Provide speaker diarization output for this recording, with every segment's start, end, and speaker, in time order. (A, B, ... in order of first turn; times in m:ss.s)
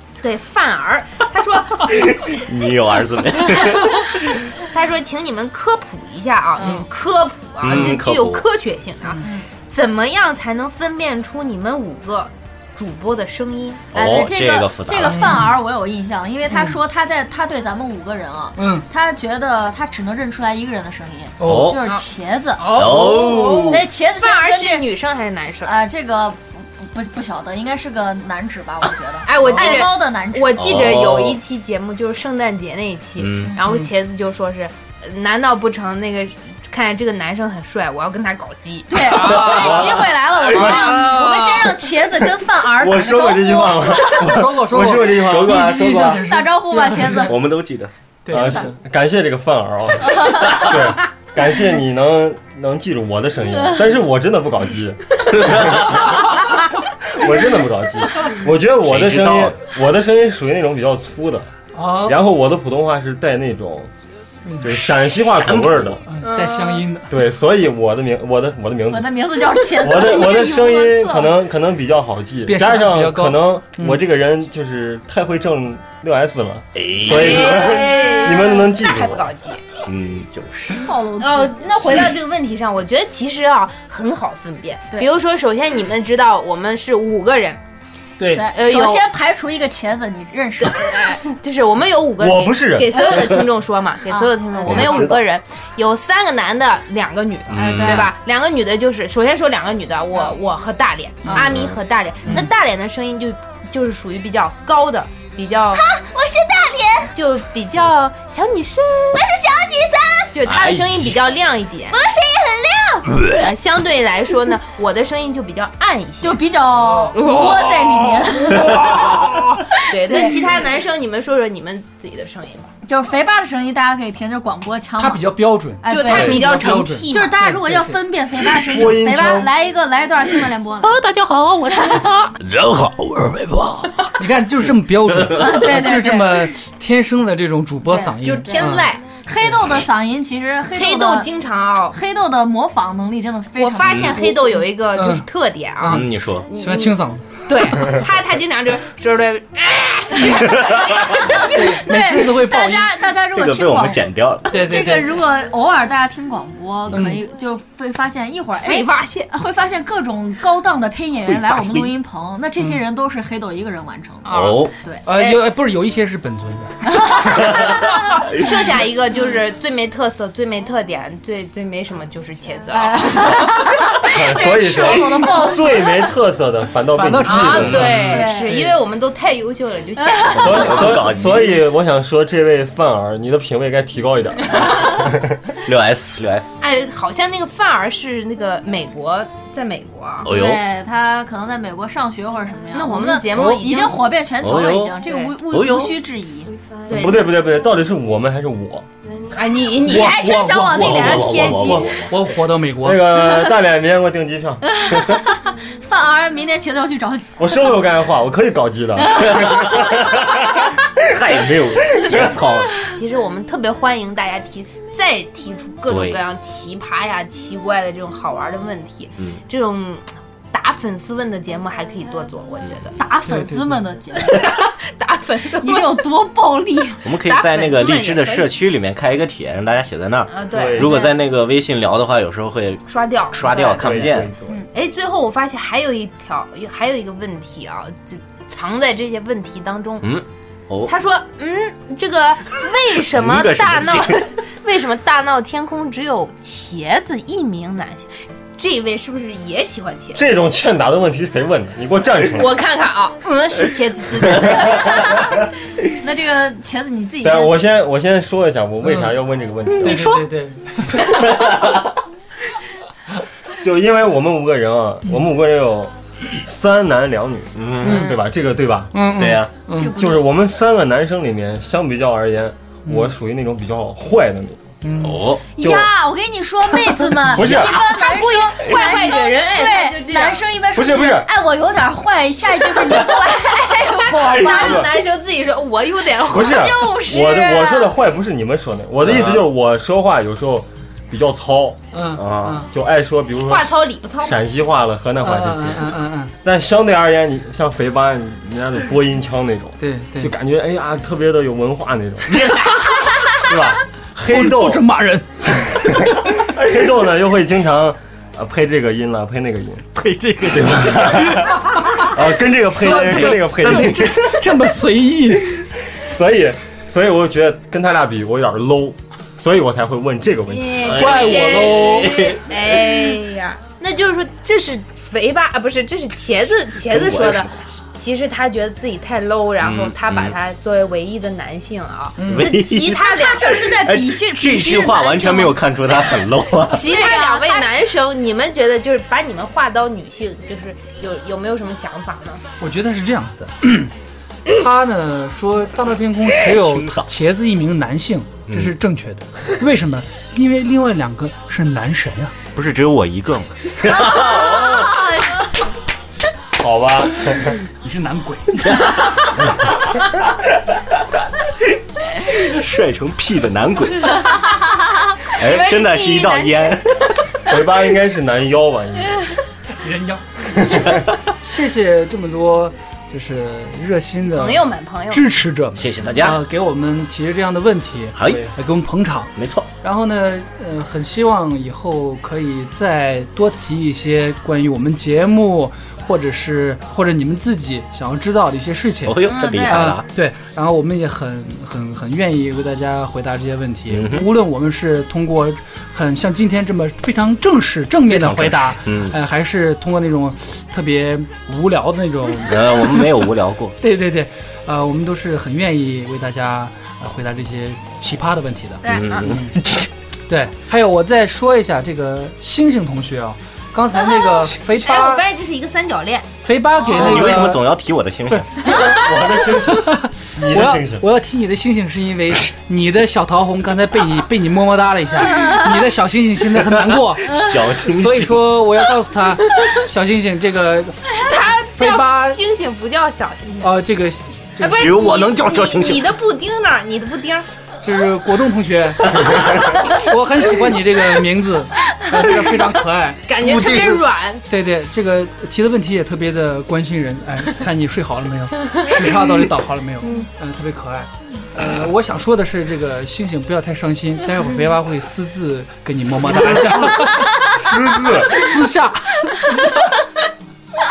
0:00.2-0:02.3 A
0:02.3-0:04.4 B
0:04.6-0:14.1 A
0:06.6-0:06.9 C
0:07.6-0:08.5 B
0:07.7-0:08.0 C
0:09.2-0:09.5 D
0:13.9-0:22.8 D
0:14.0-0:15.1 B
0:15.0-0:15.6 C
0:16.5-0:16.8 C
0:18.6-0:18.9 C
0:21.4-0:21.8 C
0:21.4-0:21.8 B
0:22.6-0:25.8 A
0:22.7-0:23.8 B
0:23.7-0:24.9 D
0:25.6-0:30.9 D
0:29.2-0:41.7 A
0:30.6-0:31.4 B
0:33.2-0:33.6 B
0:38.9-0:44.4 D
0:39.3-0:39.6 B
0:39.6-0:40.8 E
0:42.7-0:46.2 E
0:44.1-0:47.4 C
0:45.2-0:46.2 B
0:46.2-0:47.4 D
0:47.3-0:47.9 B
0:48.2-0:48.8 C
0:48.3-0:56.0 E
0:50.0-0:50.7 D
0:53.5-0:53.8 D
0:57.1-1:01.5 E
0:58.8-0:59.6 B
1:01.8-1:02.2 C
1:02.0-1:03.9 E
1:04.4-1:04.8 C
1:04.6-1:06.0 E
1:05.4-1:05.8 B
1:06.0-1:07.2 C
1:06.3-1:06.8 A
1:07.1-1:19.3 E
1:08.9-1:11.4 D
1:12.4-1:14.0 C
1:16.8-1:17.6 B
1:17.1-1:19.6 A
1:17.2-1:18.6 D
1:19.9-1:20.9 B
1:20.8-1:22.1 D
1:21.2-1:27.6 A
1:28.2-1:28.5 C
1:28.3-1:31.1 D
1:28.4-1:29.1 A
1:30.6-1:45.8 A
1:32.2-1:33.0 E
1:34.1-1:35.0 D
1:34.7-1:35.2 B
1:37.5-1:38.1 B
1:41.3-1:41.6 D
1:41.4-1:41.8 B
1:45.7-1:47.1 D
1:47.1-1:49.3 A
1:49.1-1:50.4 D
1:50.3-1:52.0 A
1:50.4-1:51.3 B
1:51.9-1:53.3 D
1:53.3-1:57.8 A
1:56.2-1:59.2 D
1:58.6-1:59.2 A
1:59.8-2:00.4 D
1:59.8-2:02.7 A
2:02.8-2:06.4 D
2:05.0-2:08.0 C
2:05.9-2:07.4 A
2:07.1-2:11.0 D
2:08.6-2:09.5 E
2:10.8-2:14.1 B
2:14.1-2:18.9 C
2:15.3-2:16.5 D
2:17.9-2:21.3 D
2:18.2-2:19.1 A
2:20.7-2:22.0 A
2:21.9-2:24.6 D
2:23.6-2:27.0 A
2:23.8-2:24.3 B
2:24.9-2:25.3 C
2:25.8-2:27.6 C
2:25.9-2:26.5 B
2:27.5-2:31.2 A
2:30.4-2:30.8 B
2:31.2-2:45.0 D
2:31.5-2:32.9 C
2:33.3-2:34.6 B
2:34.5-2:35.2 C
2:36.9-2:37.2 C
2:38.6-2:39.3 A
2:41.3-2:41.9 B
2:44.2-2:45.4 A
2:44.4-2:44.7 B
2:45.0-2:46.9 C
2:46.9-2:47.9 D
2:48.3-2:53.5 A
2:52.7-2:56.0 D
2:54.0-2:58.0 E
2:56.9-2:58.8 C
2:57.2-3:01.5 A
2:57.6-2:57.8 B
2:57.8-2:58.5 D
3:00.0-3:00.8 D
3:00.3-3:01.6 B
3:00.4-3:05.2 E
3:05.6-3:06.6 B
3:06.6-3:10.3 A
3:10.2-3:10.6 B
3:10.2-3:16.5 D
3:12.7-3:14.0 A
3:13.3-3:13.7 C
3:14.4-3:15.9 B
3:15.0-3:15.4 A
3:16.9-3:17.3 A
3:16.9-3:18.9 E
3:19.3-3:20.2 A
3:19.8-3:23.1 C
3:19.8-3:21.9 D
3:20.8-3:22.1 B
3:21.6-3:21.9 E
3:22.8-3:24.7 E
3:23.2-3:23.5 D
3:24.7-3:27.3 D
3:27.4-3:30.4 E
3:29.0-3:29.5 D
3:29.4-3:30.0 B
3:31.1-3:32.8 B
3:32.9-3:43.0 A
3:35.9-3:36.2 B
3:39.2-3:39.4 B
3:43.0-3:44.6 D
3:43.2-3:43.9 C
3:44.2-3:46.1 A
3:45.6-3:47.1 D
3:47.0-3:54.3 B
3:47.1-3:48.6 A
3:50.3-3:51.0 A
3:50.5-3:51.0 E
3:50.8-3:51.1 D
3:52.9-4:00.1 A
3:53.8-3:54.6 E
4:00.0-4:00.9 B
4:00.9-4:10.2 A
4:03.0-4:04.2 B
4:10.2-4:12.5 E
4:12.4-4:15.2 A
4:14.7-4:17.6 D
4:17.2-4:20.1 E
4:18.8-4:19.1 C
4:19.8-4:20.2 B
4:19.8-4:21.5 C
4:21.4-4:21.8 B
4:23.6-4:29.0 E
4:27.6-4:28.1 B
4:27.8-4:28.2 C
4:28.9-4:29.9 C
4:29.2-4:29.5 B
4:29.7-4:30.2 D
4:29.9-4:34.6 E
4:32.8-4:33.1 C
4:34.8-4:35.3 C
4:35.0-4:35.4 B
4:35.6-4:44.9 D
4:35.6-4:35.9 E
4:37.2-4:37.8 E
4:37.5-4:40.4 A
4:40.7-4:41.3 E
4:44.1-4:46.7 A
4:44.5-4:44.9 E
4:46.3-4:51.8 E
4:46.3-4:48.0 D
4:49.0-4:49.4 B
4:51.9-4:52.7 C
4:52.2-4:52.6 B
4:52.6-5:02.4 E
4:53.5-4:54.4 A
4:55.2-4:56.3 C
4:59.8-5:00.3 C
5:02.3-5:03.0 C
5:03.4-5:04.8 E
5:04.2-5:06.3 C
5:06.4-5:09.9 E
5:10.0-5:11.7 C
5:10.5-5:14.4 E
5:12.7-5:15.6 C
5:16.0-5:20.8 E
5:20.5-5:33.8 A
5:20.8-5:22.3 C
5:20.9-5:22.9 B
5:26.8-5:27.6 B
5:29.6-5:30.4 B
5:32.2-5:32.6 C
5:32.3-5:33.0 B
5:33.0-5:35.6 D
5:33.8-5:37.0 B
5:34.7-5:35.0 A
5:36.7-5:42.4 A
5:36.9-5:37.6 D
5:42.6-5:43.9 C
5:44.5-5:52.4 C
5:46.6-5:47.1 B
5:48.5-5:48.7 B
5:52.6-5:54.9 B
5:54.0-5:55.5 D
5:56.6-5:57.6 E
5:57.8-5:59.0 C
5:58.9-5:59.2 B
6:02.4-6:04.3 B
6:05.4-6:06.8 A
6:05.4-6:07.5 B
6:07.5-6:09.3 E
6:09.8-6:10.2 C
6:11.3-6:43.2 C
6:14.3-6:15.3 A
6:15.8-6:16.4 B
6:18.2-6:18.5 B
6:19.4-6:19.7 B
6:29.1-6:30.1 B
6:29.3-6:29.5 A
6:29.3-6:29.9 D
6:33.9-6:34.3 B
6:38.1-6:39.2 B
6:42.5-6:43.8 B
6:43.8-6:49.6 C
6:48.8-6:49.3 A
6:48.8-6:49.5 B
6:50.3-6:55.2 C
6:54.8-6:56.3 A
6:56.4-6:57.6 C
6:57.0-6:58.5 B
6:58.3-6:58.8 C
6:58.8-7:01.0 E
6:59.7-7:12.4 C
7:06.6-7:08.6 B
7:07.3-7:07.6 D
7:11.2-7:13.8 A
7:13.6-7:14.9 C
7:14.6-7:17.5 A
7:14.7-7:16.1 B
7:17.8-7:40.0 C
7:23.3-7:24.4 A
7:30.0-7:30.3 A
7:36.2-7:36.7 E
7:37.4-7:38.3 E